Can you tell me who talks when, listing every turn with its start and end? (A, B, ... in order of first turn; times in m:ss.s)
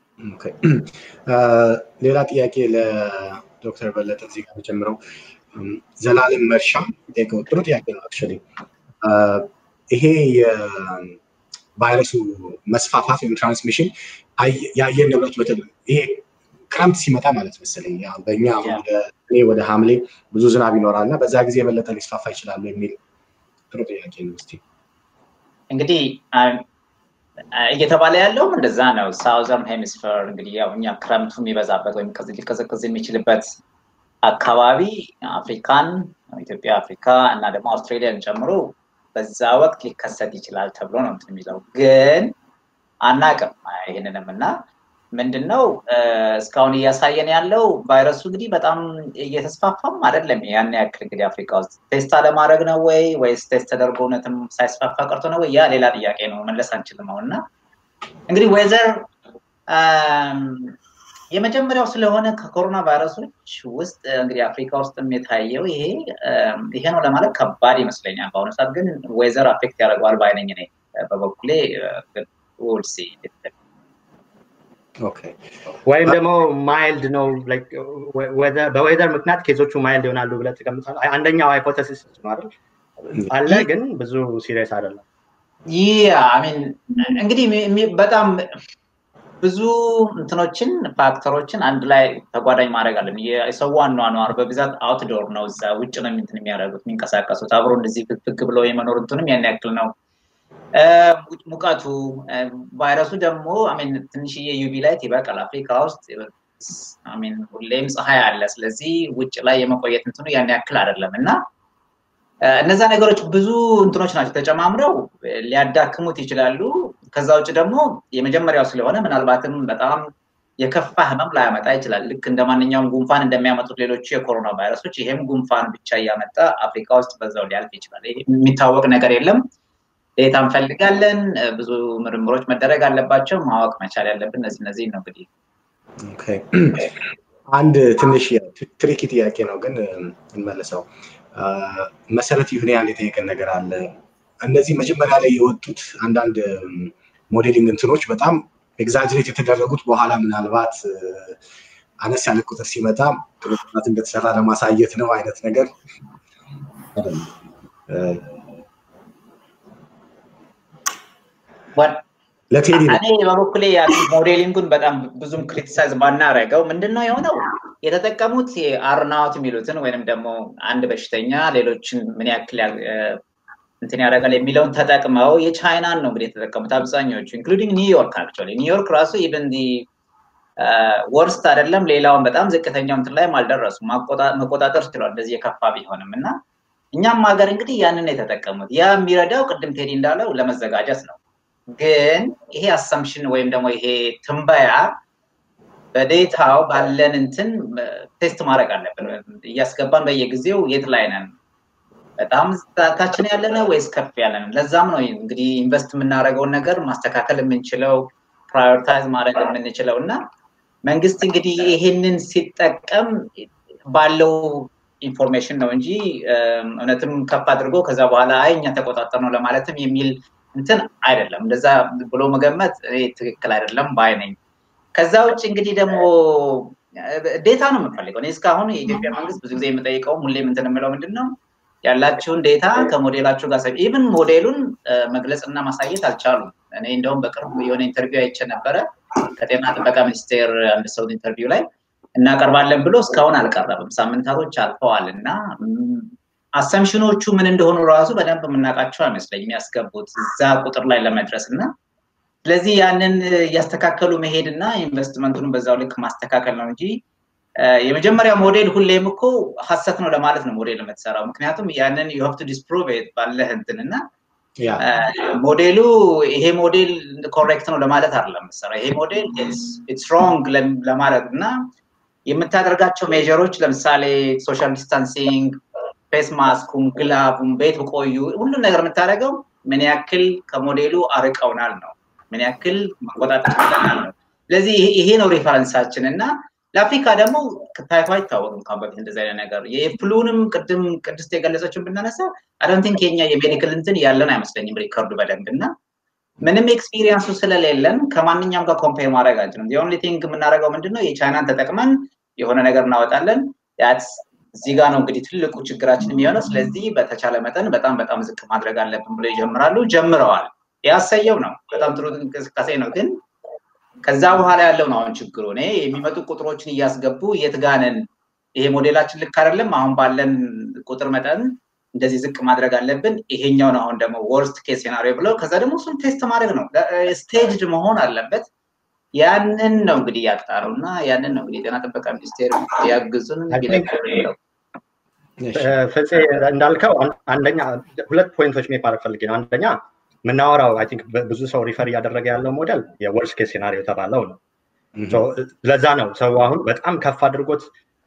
0:00.2-0:05.0 A
0:05.5-0:08.4 A
0:09.0-0:11.2 A
0:11.8-0:23.0 A
0:23.7-0:24.6 A
0:25.7-0:26.6 B
0:27.5-0:33.5 B
0:34.2-0:42.3 B
0:43.0-0:44.6 B
0:45.1-0:57.4 B
0:58.3-0:59.1 B
0:59.7-1:00.7 B
1:01.3-1:13.5 B
1:15.0-1:15.4 A
1:15.8-1:25.0 C
1:25.7-1:28.5 B
1:29.4-1:39.9 B
1:40.7-1:51.4 B
1:52.4-2:00.1 B
2:00.6-2:09.4 B
2:10.2-2:15.3 B
2:16.0-2:17.0 A
2:17.5-2:31.4 A
2:32.0-2:35.7 A
2:36.9-2:37.3 A
2:37.9-2:38.5 A
2:41.8-2:42.0 B
2:42.5-2:43.0 A
2:42.7-2:53.2 B
2:53.8-2:59.8 B
3:00.6-3:06.4 B
3:06.9-3:11.2 B
3:11.7-3:14.9 B
3:15.9-3:21.3 B
3:22.2-3:30.2 B
3:30.8-3:44.4 B
3:45.0-4:01.6 B
4:02.2-4:11.7 B
4:12.5-4:17.0 B
4:17.6-4:24.0 B
4:24.6-4:24.8 A
4:24.8-4:31.6 B
4:32.3-4:35.6 B
4:36.1-4:55.7 B
4:56.4-5:13.2 B
5:14.0-5:28.5 B
5:29.2-5:34.4 B
5:33.5-5:33.9 C
5:35.4-5:35.8 A
5:35.5-5:44.4 C
5:44.9-5:45.2 A
5:45.1-5:47.7 C